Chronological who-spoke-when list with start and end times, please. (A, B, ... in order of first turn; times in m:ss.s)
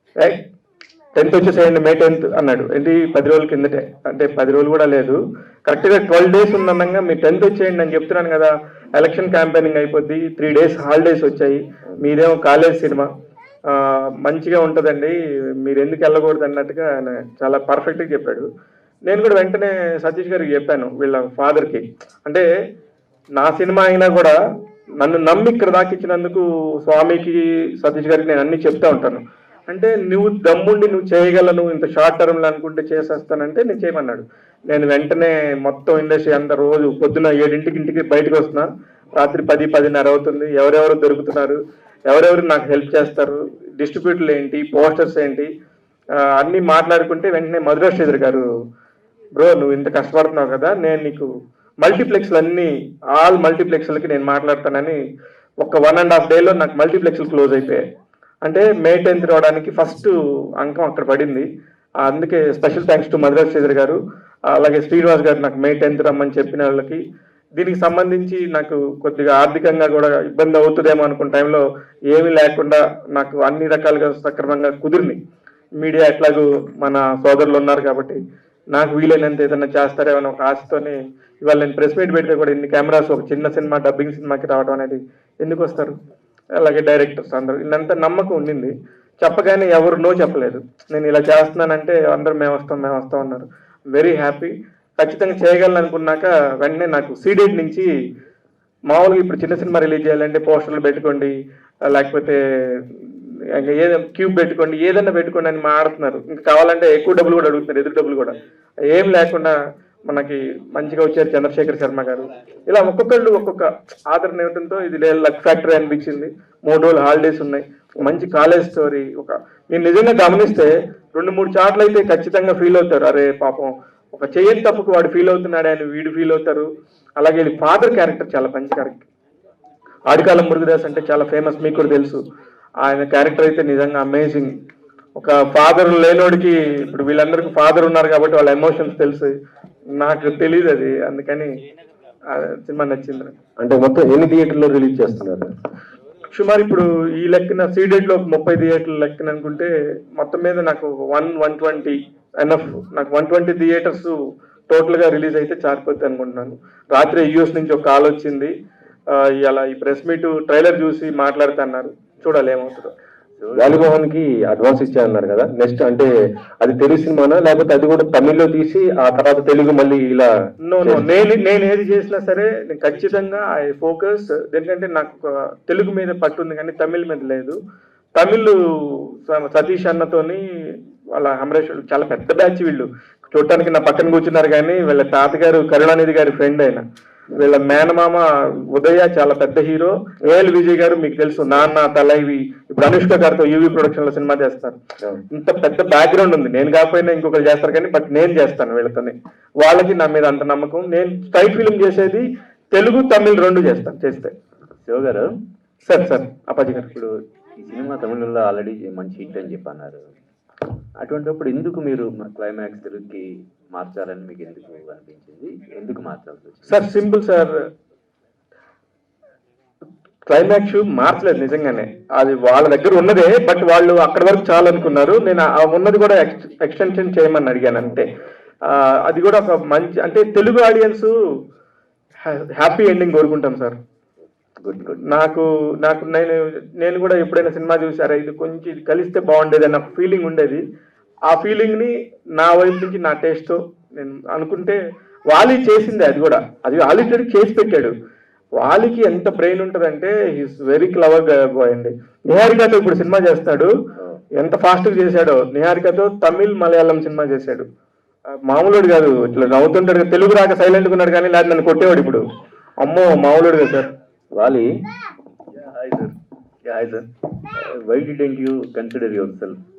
0:01.2-0:13.1 A
0:13.8-0:18.4 A
0:19.0-0:22.5 A
0:23.4-0:24.4 A
0:25.0-0:45.5 A
0:46.3-0:48.4 A
0:49.4-0:51.3 A
0:51.8-0:55.0 A
0:55.6-0:57.9 A
0:58.4-1:01.5 A
1:02.0-1:04.0 A
1:04.5-1:07.0 A
1:07.6-1:15.2 A
1:15.8-1:18.2 A
1:18.7-1:26.0 A
1:26.6-1:37.9 A
1:38.9-1:41.3 A
1:41.9-1:42.4 A
1:43.5-1:49.5 A
1:50.0-2:09.0 A
2:10.1-2:12.2 A
2:12.8-2:14.6 A
2:15.2-2:19.3 A
2:20.0-2:21.6 A
2:22.3-2:23.3 A
2:23.6-2:25.5 B
2:26.3-2:34.1 A
2:34.7-2:38.5 A
2:39.1-2:42.9 A
2:43.4-2:43.8 C
2:43.6-2:46.1 B
2:46.6-2:50.3 B
2:50.6-2:57.6 A
2:50.8-2:51.1 B
2:58.2-2:58.6 A
2:59.2-3:00.4 A
3:01.1-3:06.8 A
3:07.4-3:14.8 A
3:15.3-3:24.3 A
3:24.8-3:25.3 C
3:25.8-3:26.9 A
3:26.9-3:30.1 C
3:31.0-3:36.7 C
3:36.7-3:37.6 A
3:40.3-3:48.1 A
3:48.7-3:51.1 A
3:52.2-3:53.8 A
3:54.6-3:55.0 C
3:55.0-4:00.6 A
4:01.3-4:04.8 A
4:05.3-4:07.9 A
4:08.6-4:13.7 A
4:14.4-4:17.6 A
4:18.4-4:22.2 A
4:22.8-4:23.9 A
4:24.3-4:24.6 C
4:25.6-4:26.1 C
4:26.7-4:27.0 C
4:27.6-4:29.6 C